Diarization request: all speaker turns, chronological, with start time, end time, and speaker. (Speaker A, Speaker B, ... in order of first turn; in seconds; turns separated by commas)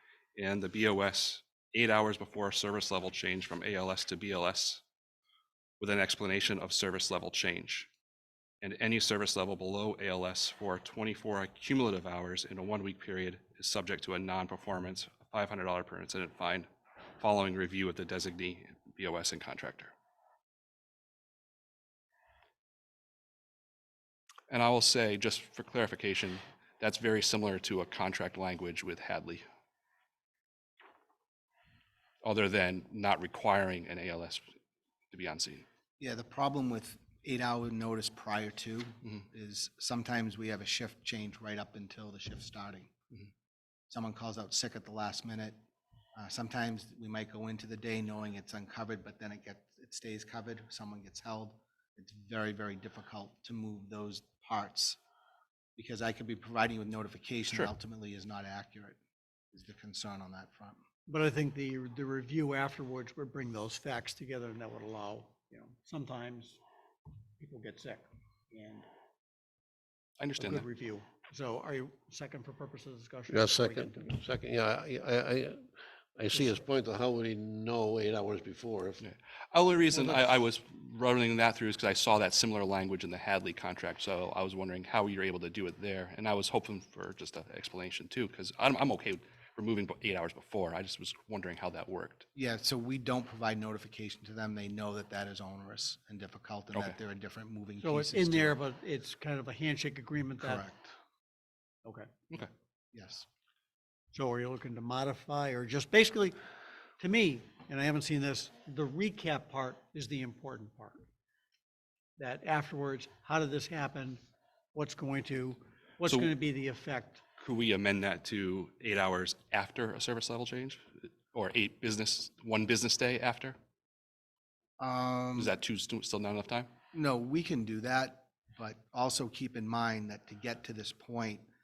Speaker A: 0.3-4.8, Speaker A: 5.8-7.9, Speaker A: 8.6-16.7, Speaker A: 17.2-19.9, Speaker A: 24.5-29.4, Speaker A: 32.2-34.5, Speaker A: 35.1-35.6, Speaker B: 36.0-42.9, Speaker B: 43.9-45.6, Speaker B: 46.1-55.0, Speaker B: 55.8-59.0, Speaker B: 59.5-60.8, Speaker C: 61.1-66.6, Speaker C: 67.4-68.9, Speaker A: 70.2-70.6, Speaker C: 70.4-74.0, Speaker D: 73.3-79.0, Speaker A: 79.0-92.2, Speaker C: 79.9-80.3, Speaker B: 92.3-98.6, Speaker C: 97.8-100.6, Speaker B: 100.4-100.9, Speaker C: 101.8-102.1, Speaker B: 102.4-103.2, Speaker C: 104.1-106.3, Speaker C: 107.0-111.0, Speaker C: 112.2-114.2, Speaker C: 114.7-117.2, Speaker A: 116.0-116.3, Speaker A: 117.4-123.5, Speaker B: 124.8-125.5, Speaker A: 125.3-126.7, Speaker B: 126.9-131.4